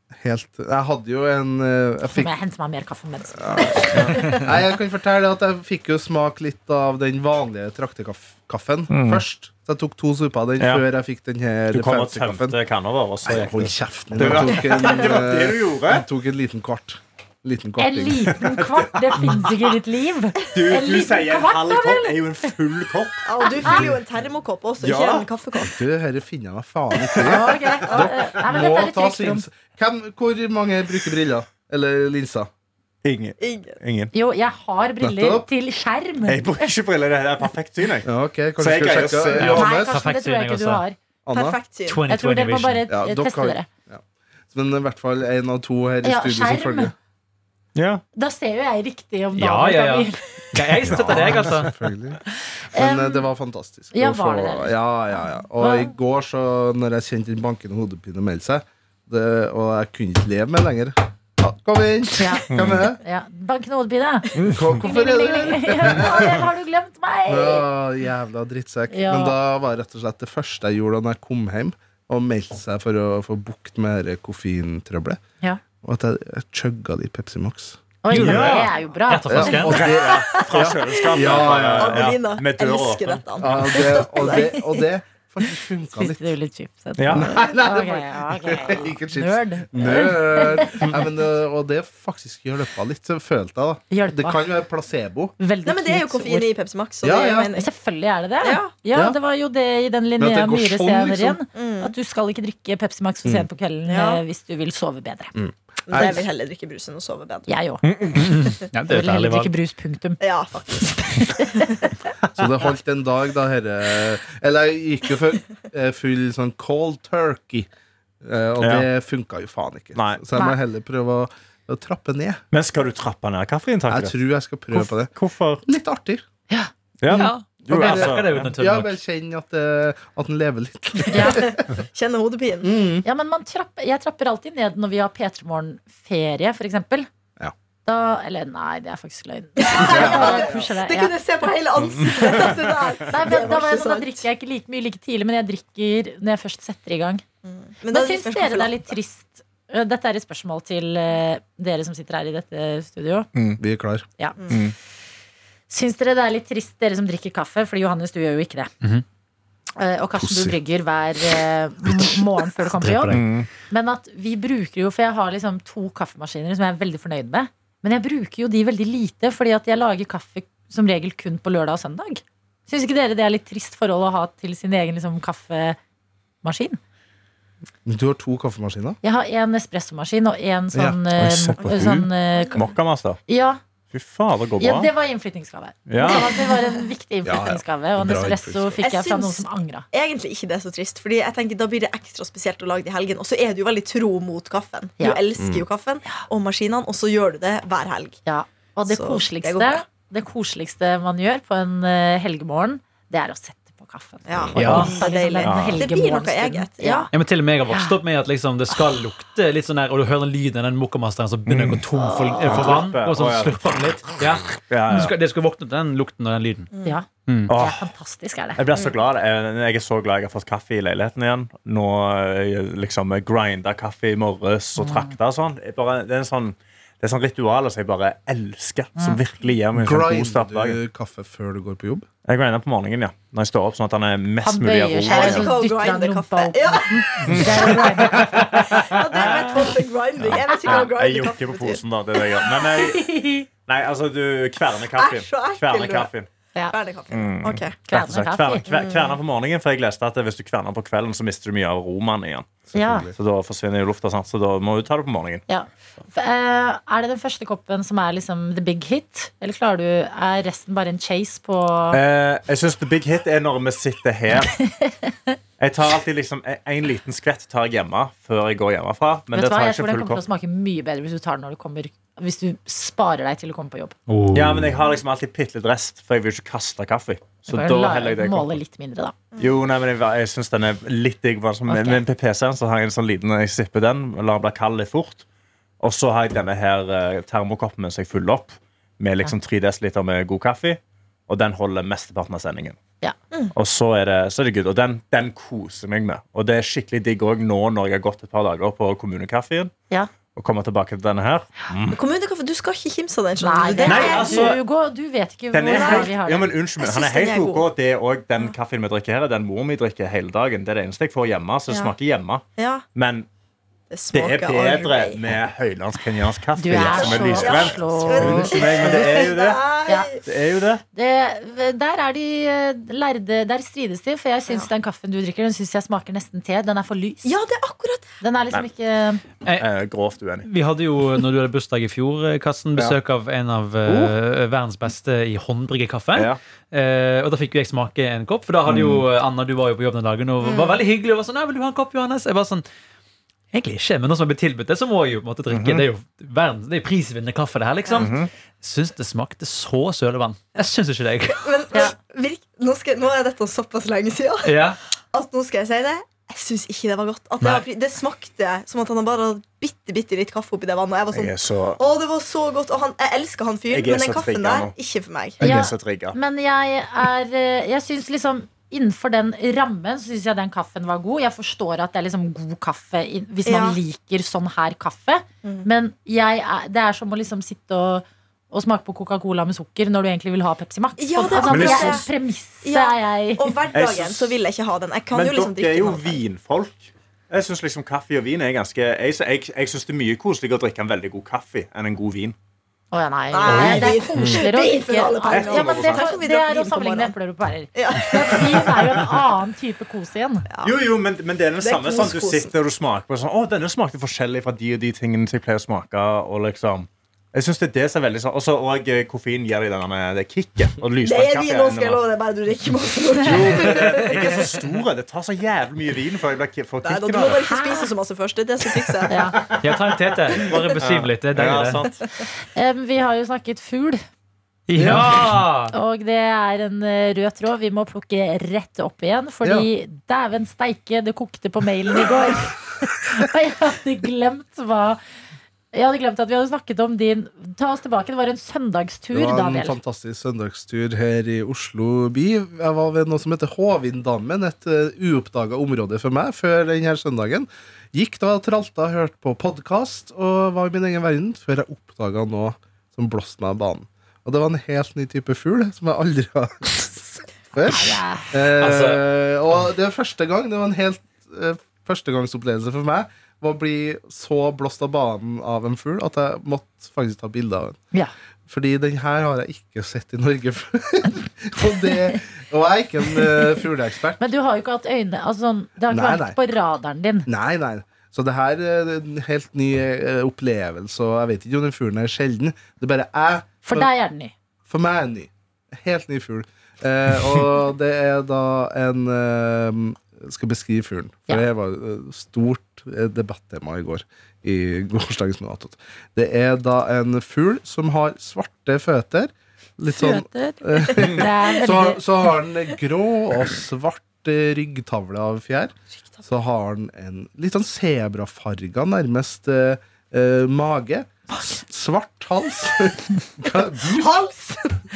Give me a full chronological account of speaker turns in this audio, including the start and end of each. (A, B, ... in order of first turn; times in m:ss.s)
0:00.2-0:02.4 A
0:02.1-0:04.2 B
0:03.3-0:12.6 A
0:08.9-0:09.2 C
0:11.7-0:16.0 C
0:13.2-0:18.5 A
0:17.8-0:22.2 B
0:20.5-0:23.2 C
0:23.2-0:25.8 D
0:23.4-0:23.8 B
0:23.6-0:24.0 A
0:24.8-0:25.3 C
0:25.6-0:32.5 A
0:27.2-0:29.4 B
0:33.0-0:34.1 C
0:33.4-0:33.8 D
0:34.1-0:36.7 B
0:35.0-0:35.5 A
0:36.3-0:39.6 C
0:38.0-0:40.0 A
0:39.4-0:40.8 E
0:39.6-0:41.0 B
0:41.2-0:41.6 A
0:41.3-0:42.0 D
0:41.9-0:42.9 E
0:42.1-0:43.7 B
0:42.9-0:46.9 A
0:46.0-0:46.9 B
0:47.8-0:48.0 C
0:48.2-0:50.5 B
0:49.4-0:51.7 E
0:50.8-0:52.2 A
0:50.8-0:51.5 C
0:52.7-0:53.3 B
0:52.8-1:03.0 A
0:53.9-0:54.8 B
0:55.6-0:55.9 B
1:02.2-1:02.5 B
1:02.5-1:02.8 C
1:03.0-1:07.7 B
1:04.4-1:06.5 A
1:07.3-1:15.2 A
1:08.9-1:09.3 B
1:15.8-1:17.9 A
1:18.0-1:19.7 B
1:18.1-1:20.1 E
1:18.1-1:18.7 C
1:19.3-1:22.2 A
1:19.8-1:23.6 C
1:20.1-1:24.8 D
1:23.4-1:26.3 A
1:25.9-1:31.0 B
1:27.0-1:27.3 C
1:27.1-1:35.4 A
1:33.9-1:34.4 B
1:35.4-1:36.5 B
1:35.6-1:37.7 D
1:37.0-1:37.5 A
1:37.6-1:45.4 B
1:38.4-1:38.7 D
1:40.2-1:41.4 A
1:41.6-1:41.9 D
1:43.9-1:44.2 D
1:45.4-1:46.2 A
1:45.9-1:47.5 D
1:46.0-1:46.2 B
1:47.5-1:47.8 B
1:47.8-1:48.3 C
1:48.1-1:49.5 E
1:48.9-1:51.9 B
1:50.2-1:51.9 D
1:52.3-1:57.7 A
1:58.2-2:02.4 A
1:58.6-1:58.9 C
2:00.0-2:00.2 C
2:02.5-2:04.1 C
2:03.9-2:05.1 A
2:04.7-2:05.6 C
2:05.7-2:06.2 A
2:06.5-2:07.2 B
2:07.0-2:08.5 C
2:07.1-2:11.7 A
2:07.1-2:08.9 E
2:11.1-2:11.5 B
2:11.2-2:12.8 D
2:12.6-2:13.0 A
2:13.0-2:17.1 B
2:17.9-2:21.2 B
2:19.6-2:24.2 D
2:19.8-2:20.6 A
2:23.1-2:27.2 B
2:27.4-2:28.8 D
2:27.9-2:33.3 B
2:33.4-2:33.6 C
2:33.6-2:34.1 A
2:35.7-2:38.7 B
2:39.8-2:55.8 B
2:40.2-2:40.6 A
2:42.7-2:43.4 E
2:43.1-2:43.5 C
2:56.4-2:56.8 B
2:57.8-2:59.0 A
2:59.0-3:02.6 B
3:01.2-3:03.2 C
3:03.3-3:03.6 B
3:03.9-3:04.9 C
3:04.6-3:09.9 B
3:05.9-3:06.3 C
3:06.0-3:06.8 D
3:07.2-3:08.8 A
3:08.8-3:18.2 D
3:18.3-3:27.1 B
3:18.9-3:19.8 D
3:24.3-3:27.1 D
3:24.4-3:24.9 A
3:24.6-3:25.0 E
3:25.4-3:25.9 C
3:27.1-3:36.7 E
3:27.7-3:28.0 B
3:31.5-3:31.8 C
3:32.0-3:32.8 B
3:32.4-3:34.1 C
3:34.6-3:35.1 C
3:36.7-3:37.0 D
3:36.8-3:38.9 B
3:37.3-3:37.5 E
3:37.5-3:37.9 C
3:38.6-3:50.8 C
3:44.8-3:45.1 B
3:49.8-3:52.1 A
3:52.3-3:55.5 C
3:54.4-3:58.7 B
3:55.1-4:01.8 D
3:57.2-3:59.6 C
4:00.2-4:03.1 C
4:02.8-4:03.5 B
4:03.7-4:06.3 C
4:05.0-4:06.1 D
4:06.7-4:07.8 D
4:07.1-4:15.4 C
4:07.9-4:08.6 B
4:08.7-4:09.2 D
4:12.7-4:13.2 A
4:12.7-4:13.1 B
4:15.5-4:22.0 B
4:21.9-4:24.6 C
4:25.6-4:30.2 C
4:29.3-4:34.0 B
4:34.1-4:34.8 E
4:34.3-4:38.6 C
4:37.5-4:39.2 B
4:39.3-4:39.6 D
4:39.4-4:45.2 C
4:41.7-4:42.0 B
4:45.8-4:52.8 C
4:53.6-4:59.7 C
5:00.4-5:02.0 C
5:01.9-5:04.6 D
5:03.4-5:06.5 B
5:03.8-5:04.6 C
5:05.5-5:12.4 C
5:05.6-5:06.1 D
5:06.8-5:07.7 D
5:11.7-5:11.9 D
5:12.6-5:12.8 D
5:13.0-5:13.3 C
5:13.9-5:15.2 D
5:14.1-5:19.6 C
5:16.6-5:18.5 B
5:16.7-5:20.2 D
5:18.2-5:18.5 A
5:20.2-5:20.8 C
5:20.9-5:27.3 B
5:27.2-5:28.1 D
5:28.2-5:29.2 B
5:29.5-5:30.5 C
5:30.5-5:42.6 E
5:33.9-5:34.1 C
5:38.7-5:39.0 C
5:40.4-5:40.8 D
5:43.5-5:51.5 E
5:45.5-5:45.8 C
5:48.0-5:48.3 C
5:51.3-6:05.4 D
5:54.4-5:54.8 E
5:57.4-5:57.7 E
6:01.1-6:01.8 C
6:03.7-6:04.7 C
6:05.4-6:06.2 C
6:05.4-6:23.6 B
6:13.4-6:13.8 D
6:21.0-6:22.1 D
6:21.5-6:22.0 C
6:22.6-6:26.2 D
6:23.7-6:24.4 C
6:25.1-6:32.4 C
6:32.9-6:40.5 B
6:33.3-6:37.1 D
6:33.5-6:34.4 E
6:35.3-6:36.1 C
6:37.8-6:39.0 D
6:40.6-6:52.0 C
6:41.6-6:42.5 D
6:51.0-6:54.3 D
6:53.2-6:57.5 C
6:56.8-6:59.6 D
6:57.4-6:57.9 B
6:59.1-6:59.4 B
6:59.4-7:02.0 C
6:59.6-7:01.9 E
7:00.3-7:00.7 D
7:02.6-7:04.0 B
7:04.7-7:05.7 E
7:04.8-7:05.2 A
7:05.7-7:15.0 B
7:15.7-7:19.8 B
7:19.1-7:47.8 A
7:37.7-7:38.3 B
7:38.6-7:39.0 E
7:48.5-7:54.2 A
7:54.2-7:57.3 B
7:55.9-7:56.4 A
7:57.3-8:03.9 A
8:03.6-8:04.3 B
8:04.7-8:34.6 A
8:19.9-8:22.0 B